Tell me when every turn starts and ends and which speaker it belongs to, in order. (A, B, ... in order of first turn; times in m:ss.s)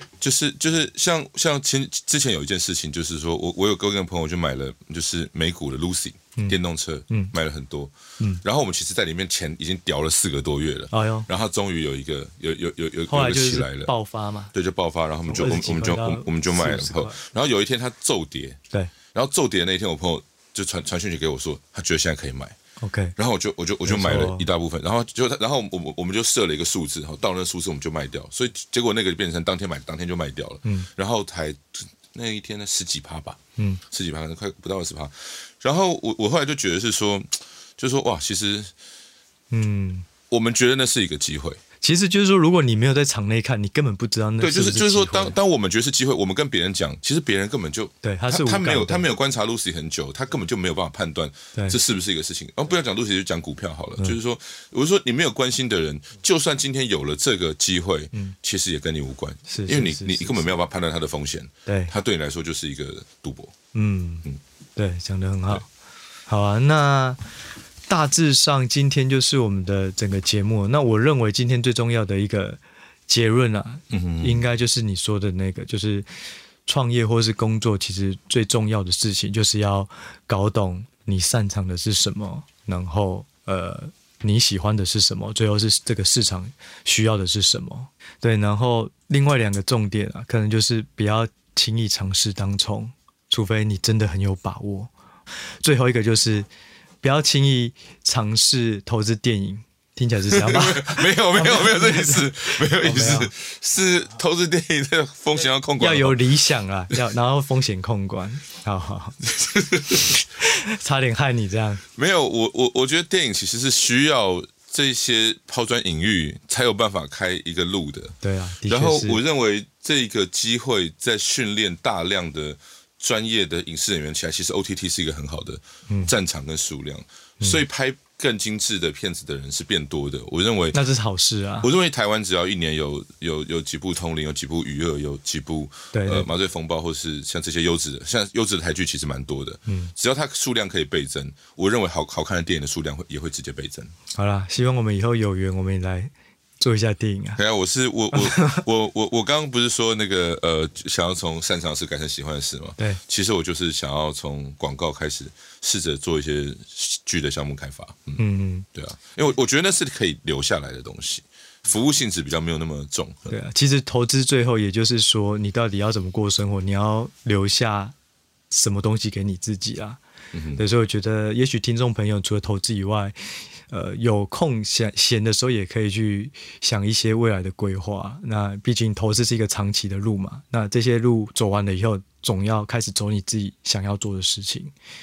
0:00.2-0:13.9 A
0:10.9-0:11.3 B
0:13.1-0:14.5 B
0:14.5-0:18.6 A
0:15.3-0:17.2 B
0:19.1-0:22.6 A
0:22.8-0:23.2 B
0:23.2-0:33.4 A
0:23.9-0:24.5 B
0:33.9-0:38.7 A
0:39.5-0:40.1 B
0:40.3-0:41.6 A
0:41.8-0:45.4 B
0:44.4-1:03.6 A
0:48.0-0:49.0 B
0:59.5-1:00.5 B
1:01.7-1:01.9 B
1:03.7-1:04.3 B
1:04.8-1:05.6 B
1:06.3-1:07.2 B
1:07.9-1:16.1 B
1:13.9-1:14.4 A
1:16.6-1:34.9 B
1:35.6-1:36.5 B
1:37.0-1:43.3 B
1:40.3-1:46.2 A
1:45.8-1:49.2 B
1:49.2-1:50.1 A
1:49.9-1:51.8 B
1:51.9-1:58.2 A
1:58.2-1:59.2 B
1:58.7-2:10.8 A
2:10.7-2:11.7 B
2:11.6-2:23.9 A
2:15.9-2:16.3 B
2:19.7-2:19.9 B
2:24.2-2:27.4 B
2:27.4-2:38.2 A
2:28.1-2:28.6 B
2:38.2-2:38.7 B
2:38.7-2:43.3 A
2:43.3-2:47.9 B
2:48.5-2:50.0 B
2:50.3-2:50.6 A
2:50.6-2:53.1 B
2:53.7-3:04.7 B